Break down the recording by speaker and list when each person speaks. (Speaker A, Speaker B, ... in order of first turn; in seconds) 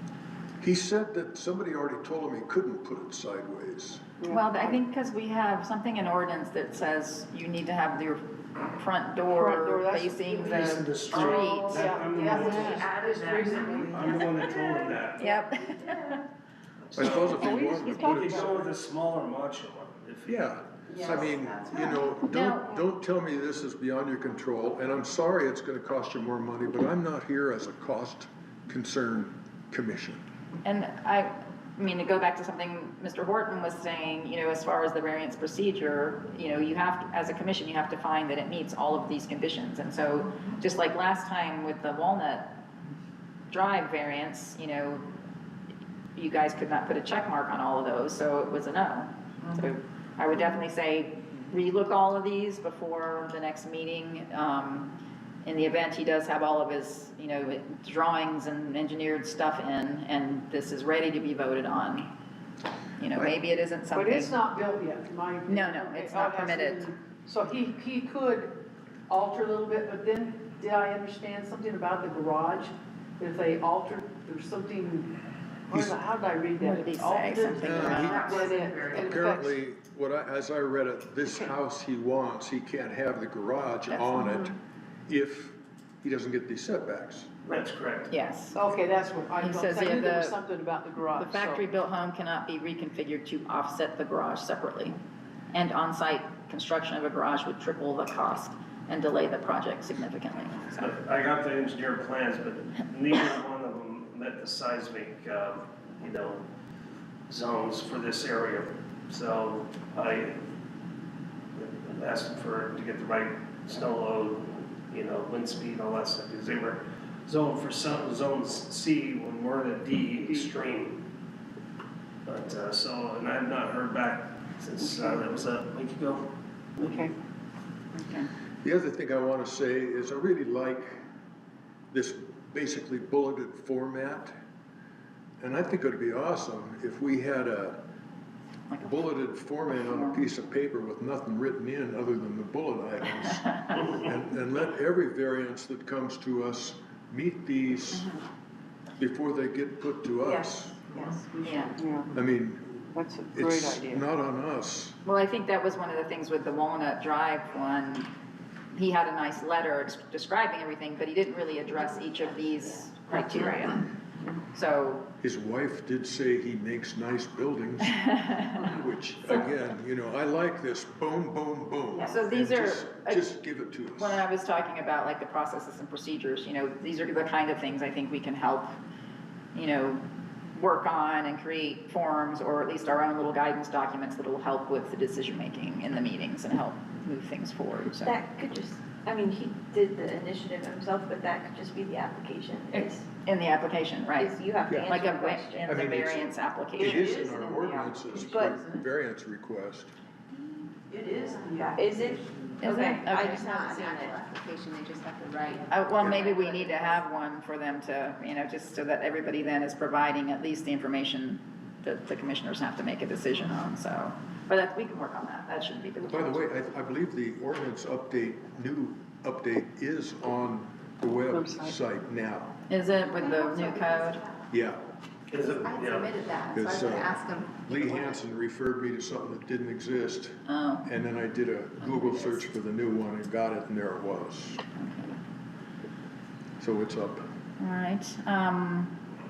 Speaker A: 0.6-4.1, 16.9-18.5, 20.3-30.2, 75.7-76.0, 77.6-78.4, 78.9-84.6, 85.1-87.3, 128.6-131.0, 131.9-134.3, 135.4-137.8, 138.8-148.1, 149.0-150.8, 152.1-155.0, 165.2-174.2, 194.7-195.0, 195.7-199.9, 216.0-222.6, 224.5-224.8, 226.5-234.6, 236.6-237.3
Speaker B: 4.2-4.6, 9.3-14.6, 17.0-18.8, 63.9-75.1, 75.7-79.5, 88.5-91.6, 120.2-120.5, 124.8-125.2, 126.8-127.1, 151.8-152.1, 152.9-154.1, 221.3-221.8
Speaker C: 4.3-11.9, 15.2-16.2, 17.0-18.1, 21.7-22.8, 30.6-42.5, 43.5-45.1, 46.1-62.1, 63.0-64.4, 65.5-66.9, 76.6-79.0, 83.9-84.5, 88.1-88.6, 89.4-90.4, 91.2-95.0, 95.5-100.9, 127.9-128.3, 138.7-139.0, 139.7-140.2, 147.9-148.2, 151.4-151.8, 155.1-158.1, 158.7-163.8, 164.5-165.0, 172.1-173.3, 174.0-178.8, 179.5-180.0, 180.5-188.2, 192.7-197.2, 202.6-203.4, 205.7-216.4, 222.7-224.2, 230.5-230.9, 234.8-235.2, 237.6-238.9
Speaker D: 10.4-12.9, 13.9-15.2, 16.9-17.5, 18.1-20.4, 87.5-88.1, 100.8-106.4, 107.3-110.4, 111.6-121.0, 122.2-126.3, 225.3-226.2
Speaker E: 12.3-14.9, 15.8-16.1, 20.9-21.7, 150.2-151.8, 196.9-198.8, 200.9-202.7, 203.8-204.1
Speaker F: 78.5-79.0, 203.1-206.9, 223.2-224.4, 225.5-228.1
Speaker G: 161.8-163.7, 188.0-193.1, 194.2-195.7, 201.7-204.2